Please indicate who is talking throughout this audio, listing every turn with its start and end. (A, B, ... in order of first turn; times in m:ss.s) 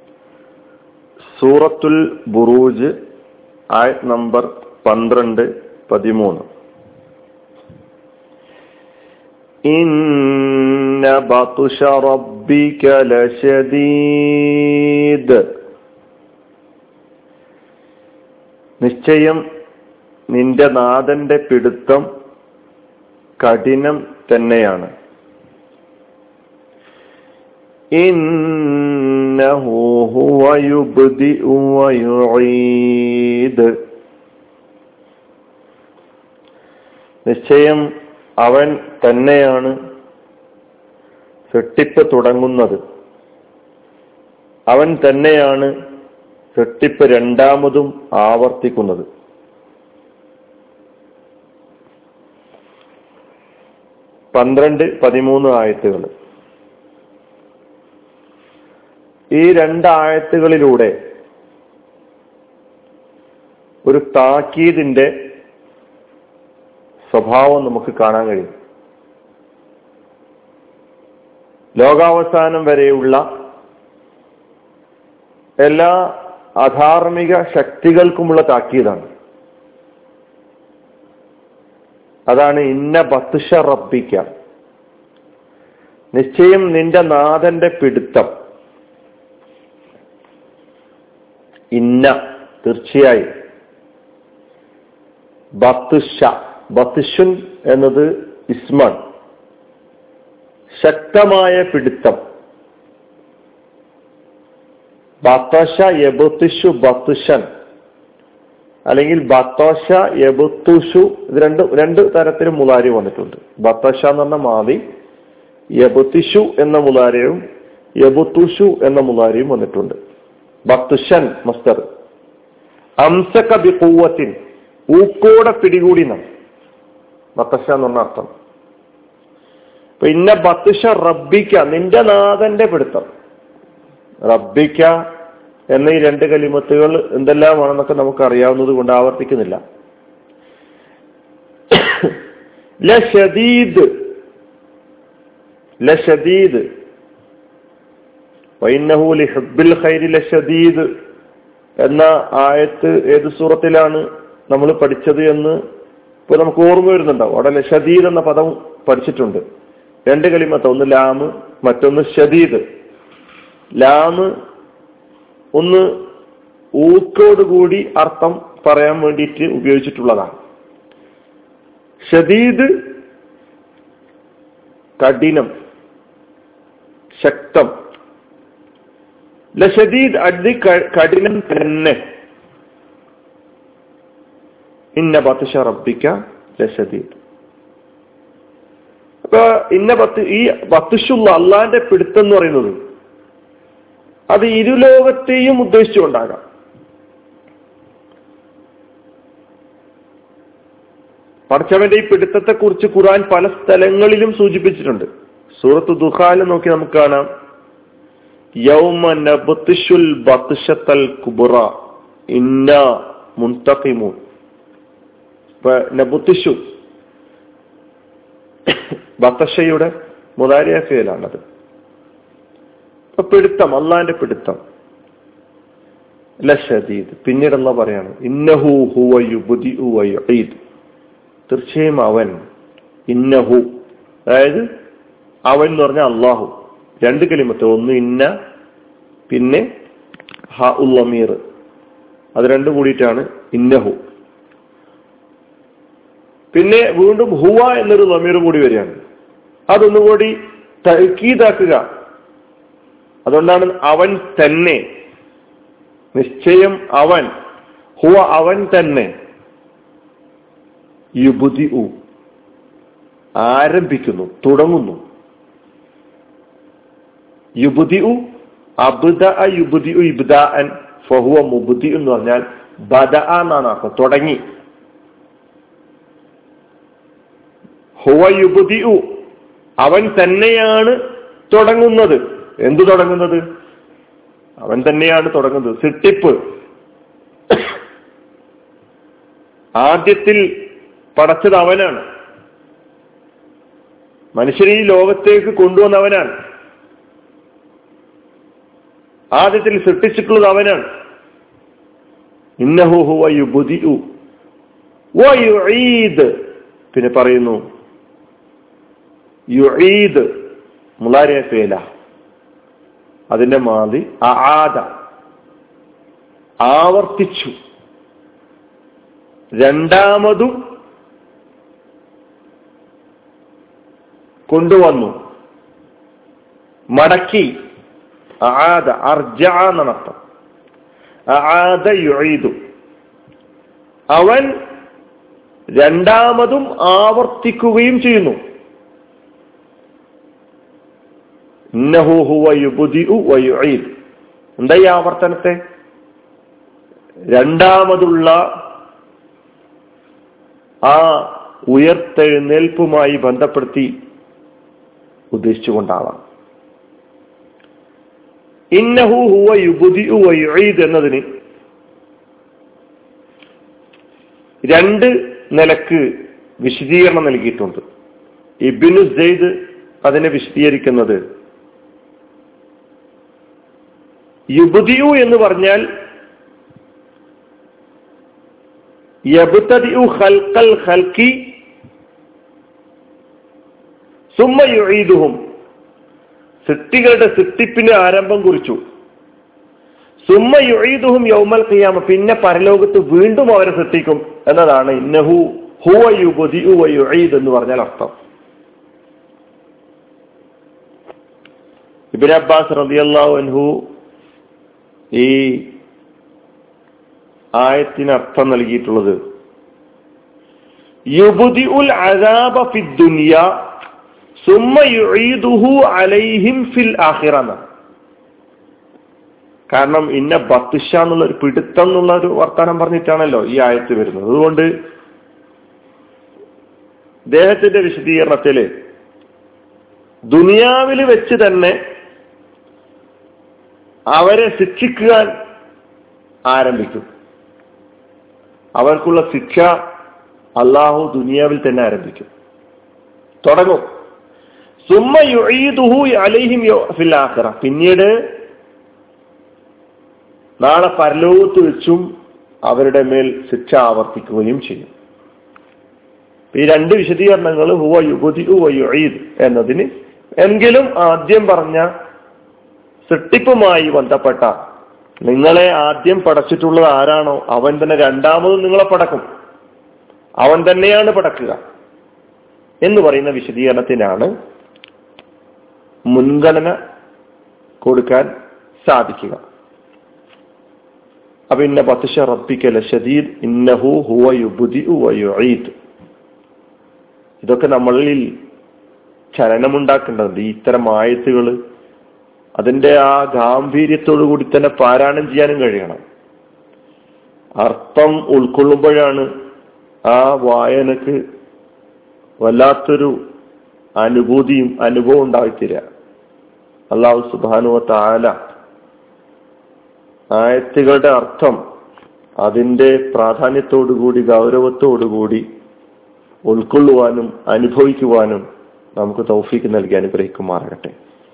0:01.3-0:02.9 A
0:03.7-0:06.4 A
0:09.7-0:15.5 A
0:18.8-0:19.4 A
0:20.3-0:22.0 A
0:23.4-0:24.9 A
0:28.0-0:33.8 A
0:37.2-0:37.8 A
0:38.4-0:39.7 A
0:41.5-0:42.8 A
0:44.7-0:45.7 A
0:46.5-0:49.0 A
0:54.3-0:56.1 A
0:59.3-1:00.9 A
1:03.8-1:05.1 A
1:07.1-1:08.5 A
1:11.8-1:13.2 A
1:15.6-1:15.9 A
1:16.6-1:19.1 A
1:22.3-1:24.3 A
1:26.1-1:28.3 A
1:31.7-1:33.3 A
1:35.6-1:39.0 A
1:40.8-1:42.2 A
1:45.2-1:47.4 A
1:48.9-1:54.8 A
1:55.8-1:57.4 A
1:58.0-2:00.0 A
2:00.7-2:01.8 A
2:03.0-2:04.3 A
2:04.9-2:06.2 A
2:07.4-2:08.3 A
2:10.0-2:13.1 A
2:14.3-2:14.9 A
2:15.7-2:19.6 A
2:21.7-2:22.2 A
2:22.8-2:23.9 A
2:25.8-2:26.6 A
2:28.6-2:30.9 A
2:31.8-2:35.6 A
2:36.3-2:39.4 A
2:40.1-2:42.6 A
2:43.8-2:44.3 A
2:45.6-2:45.9 A
2:46.8-2:50.3 A
2:52.1-2:52.7 A
2:55.0-2:55.5 A
2:57.2-2:57.7 A
2:59.6-3:02.0 A
3:05.0-3:07.2 A
3:09.2-3:12.8 A
3:14.3-3:16.4 A
3:21.5-3:25.1 A
3:25.6-3:27.2 A
3:28.6-3:31.7 A
3:32.3-3:34.2 A
3:35.6-3:36.6 A
3:38.7-3:41.4 A
3:43.1-3:44.6 A
3:46.4-3:50.6 A
3:51.5-3:52.4 A
3:53.1-3:53.7 A
3:54.3-3:54.6 A
3:55.5-3:58.3 A
3:59.3-3:59.6 A
4:00.6-4:01.4 A
4:02.4-4:04.0 A
4:06.5-4:09.0 A
4:09.7-4:11.8 A
4:13.2-4:14.8 A
4:16.1-4:17.3 A
4:18.0-4:19.1 A
4:21.2-4:21.9 A
4:23.4-4:25.0 A
4:27.6-4:28.2 A
4:28.8-4:34.4 A
4:38.0-4:39.0 A
4:39.8-4:40.9 A
4:41.5-4:43.4 A
4:44.6-4:46.4 A
4:49.8-4:50.4 A
4:51.2-4:52.0 A
4:54.4-4:56.3 A
4:59.4-5:00.8 A
5:02.6-5:04.0 A
5:05.2-5:06.3 A
5:06.9-5:07.6 A
5:09.5-5:10.3 A
5:11.0-5:11.8 A
5:13.3-5:14.8 A
5:16.6-5:17.5 A
5:19.6-5:20.6 A
5:24.5-5:25.1 A
5:26.9-5:27.5 A
5:28.4-5:30.2 A
5:31.3-5:32.5 A
5:34.1-5:34.5 A
5:35.8-5:38.4 A
5:41.8-5:43.9 A
5:44.6-5:45.6 A
5:47.3-5:48.4 A
5:50.9-5:53.9 A
5:55.3-5:56.2 A
5:58.7-6:01.2 A
6:04.7-6:06.0 A
6:06.6-6:07.8 A
6:08.6-6:11.2 A
6:14.6-6:15.8 A
6:19.3-6:21.5 A
6:24.3-6:25.4 A
6:26.6-6:28.8 A
6:30.3-6:38.1 A
6:42.1-6:43.8 A
6:45.1-6:45.7 A
6:47.6-6:49.2 A
6:51.1-6:53.4 A
6:54.4-6:57.6 A
6:59.7-7:04.7 A
7:07.3-7:08.7 A
7:10.3-7:11.8 A
7:14.1-7:15.3 A
7:16.5-7:17.0 A
7:18.8-7:19.7 A
7:20.6-7:22.3 A
7:23.4-7:23.8 A
7:24.9-7:28.1 A
7:30.6-7:32.0 A
7:32.7-7:34.9 A
7:36.5-7:39.9 A
7:40.4-7:41.8 A
7:43.1-7:44.5 A
7:45.2-7:49.2 A
7:50.4-7:51.6 A
7:52.8-7:54.3 A
7:56.1-7:56.7 A
7:57.8-7:58.3 A
7:58.8-7:59.4 A
8:01.5-8:05.7 A
8:07.4-8:08.3 A
8:09.3-8:11.5 A
8:12.6-8:16.0 A
8:17.6-8:19.3 A
8:20.1-8:21.2 A
8:22.4-8:23.1 A
8:24.0-8:25.8 A
8:26.9-8:28.3 A
8:30.3-8:31.6 A
8:32.4-8:35.4 A
8:36.5-8:38.4 A
8:39.0-8:40.9 A